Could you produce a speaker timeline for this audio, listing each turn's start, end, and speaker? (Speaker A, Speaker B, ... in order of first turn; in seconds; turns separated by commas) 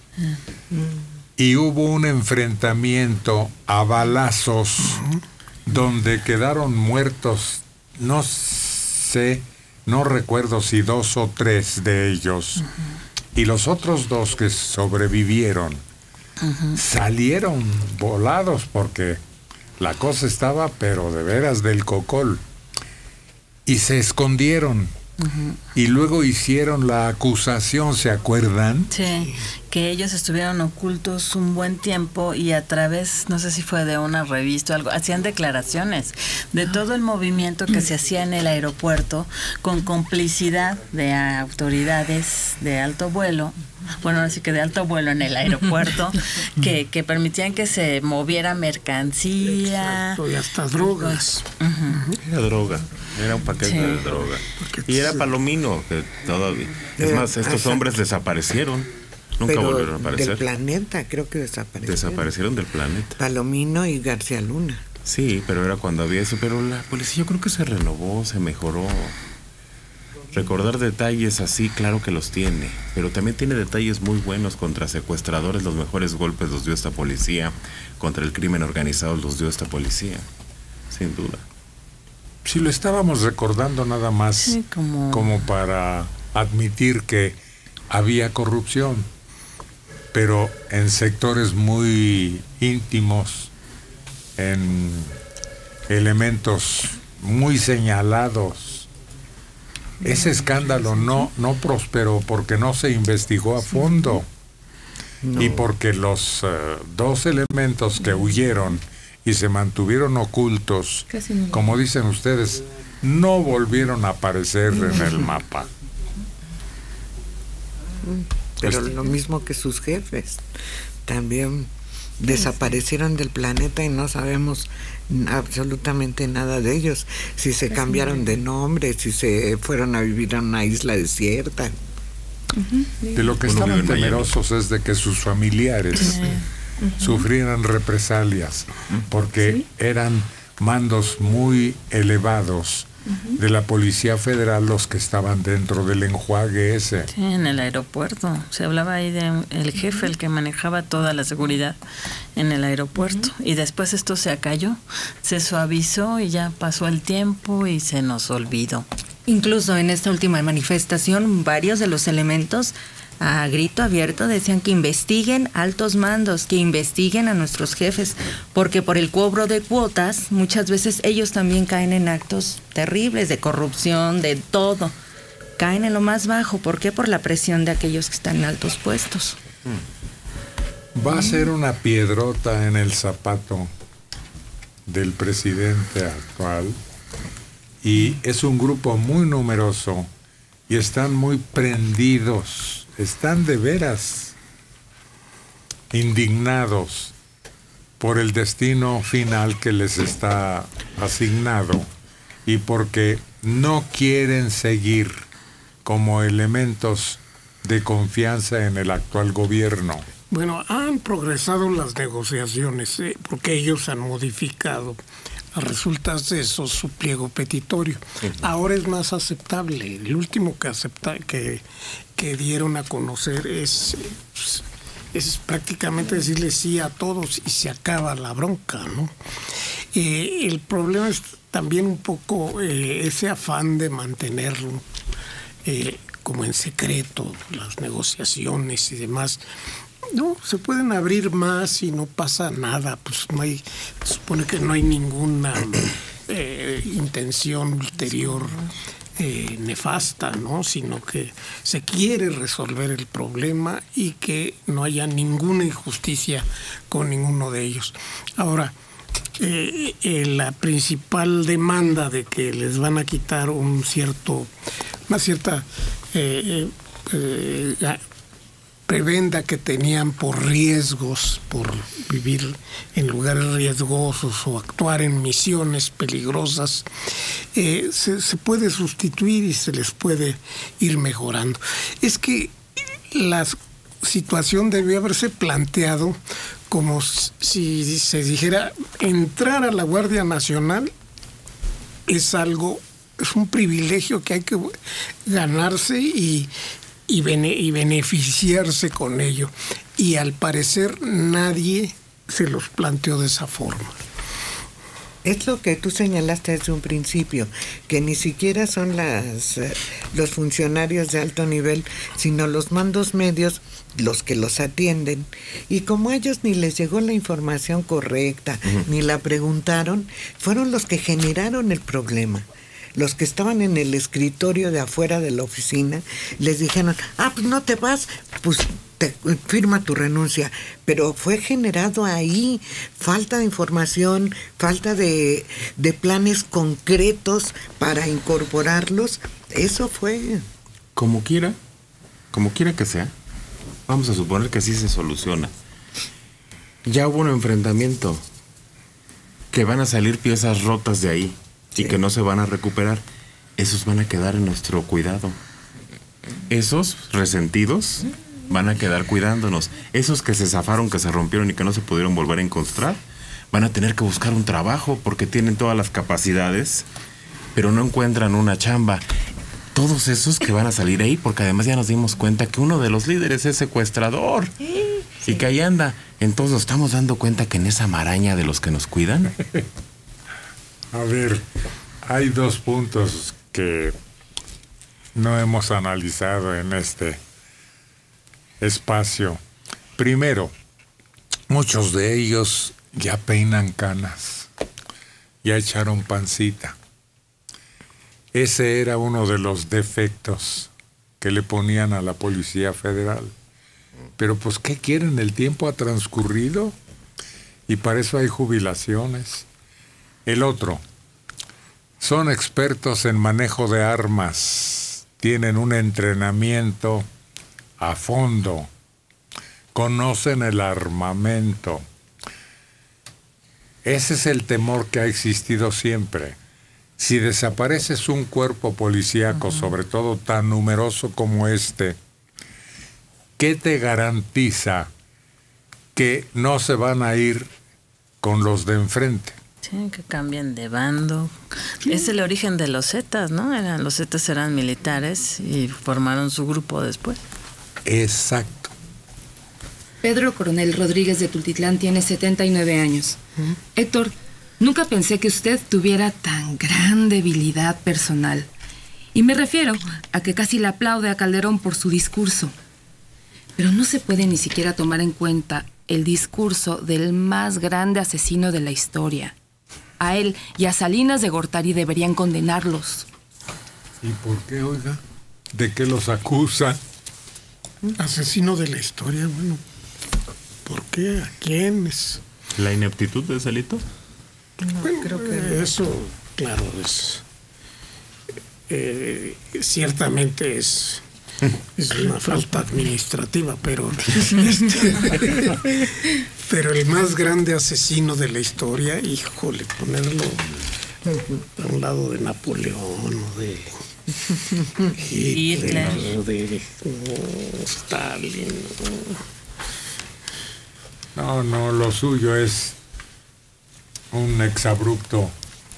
Speaker A: 1.4-5.0, Speaker B: 4.9-5.2, Speaker A: 5.7-12.7, Speaker A: 13.3-15.8, Speaker C: 16.4-16.8, Speaker A: 16.8-19.2, Speaker A: 19.8-22.4, Speaker A: 23.7-24.9, Speaker C: 25.2-25.6, Speaker A: 25.7-28.9, Speaker C: 28.9-50.2, Speaker B: 49.7-52.2, Speaker C: 50.8-52.0, Speaker D: 52.2-60.4, Speaker C: 53.6-54.1, Speaker B: 54.5-55.3, Speaker E: 57.0-57.9, Speaker E: 59.5-62.3, Speaker D: 61.9-63.2, Speaker E: 63.2-64.8, Speaker D: 65.0-69.2, Speaker D: 70.3-80.3, Speaker D: 80.9-81.4, Speaker A: 82.5-84.6, Speaker C: 84.4-85.4, Speaker A: 85.1-87.4, Speaker A: 87.9-89.1, Speaker A: 90.1-93.5, Speaker A: 94.4-95.2, Speaker A: 95.9-98.9, Speaker A: 100.0-104.3, Speaker E: 105.2-105.6, Speaker A: 105.4-115.7, Speaker F: 111.1-111.5, Speaker E: 118.0-120.4, Speaker E: 121.1-131.7, Speaker F: 132.7-133.1, Speaker A: 133.1-136.2, Speaker D: 133.4-134.3, Speaker C: 136.1-136.4, Speaker A: 137.0-147.1, Speaker C: 147.2-151.8, Speaker C: 152.4-158.9, Speaker G: 159.3-174.9, Speaker G: 175.6-179.4, Speaker A: 180.9-183.7, Speaker A: 184.9-186.8, Speaker A: 187.8-190.1, Speaker A: 190.7-194.3, Speaker A: 195.9-197.1, Speaker A: 198.0-201.9, Speaker A: 202.5-205.2, Speaker A: 205.8-210.1, Speaker B: 210.3-215.0, Speaker B: 215.5-221.6, Speaker B: 222.2-229.1, Speaker B: 229.9-234.8, Speaker B: 235.7-239.4, Speaker B: 240.1-258.7, Speaker B: 259.4-264.5, Speaker B: 265.1-268.0, Speaker B: 268.9-276.9, Speaker B: 277.5-286.2, Speaker B: 286.7-290.9, Speaker B: 292.1-294.7, Speaker B: 295.3-296.5, Speaker B: 297.1-304.0, Speaker E: 305.2-340.4, Speaker D: 341.0-341.6, Speaker D: 342.3-343.1, Speaker D: 343.9-345.5, Speaker D: 346.9-348.2, Speaker D: 349.5-353.1, Speaker D: 353.6-355.4, Speaker D: 356.5-363.0, Speaker D: 363.5-366.9, Speaker D: 367.6-369.0, Speaker D: 369.7-379.3, Speaker A: 380.9-381.4, Speaker A: 382.0-383.9, Speaker A: 385.1-387.2, Speaker A: 388.6-389.4, Speaker A: 390.0-390.5, Speaker A: 391.5-394.5, Speaker A: 395.4-396.8, Speaker A: 398.3-400.7, Speaker A: 401.2-403.3, Speaker A: 404.2-406.8, Speaker A: 407.7-409.5, Speaker A: 410.3-410.8, Speaker A: 412.0-417.1, Speaker A: 417.8-418.7, Speaker A: 419.7-421.8, Speaker A: 423.8-426.4, Speaker A: 427.0-432.0, Speaker C: 429.4-429.7, Speaker A: 433.4-434.9, Speaker A: 435.9-437.5, Speaker A: 438.2-439.4, Speaker C: 439.6-447.2, Speaker A: 447.9-448.7, Speaker F: 450.0-453.2, Speaker F: 453.7-458.5, Speaker F: 459.1-462.6, Speaker F: 463.6-469.4, Speaker F: 470.0-473.1, Speaker A: 474.0-475.0, Speaker A: 475.5-476.8, Speaker B: 478.0-479.6, Speaker B: 480.6-482.2, Speaker D: 482.6-483.8, Speaker E: 484.6-485.6, Speaker B: 484.8-487.2, Speaker B: 488.7-491.1, Speaker B: 491.8-500.5, Speaker B: 501.4-504.2, Speaker B: 504.8-509.2, Speaker C: 505.3-506.1, Speaker A: 511.1-512.8, Speaker A: 514.1-515.3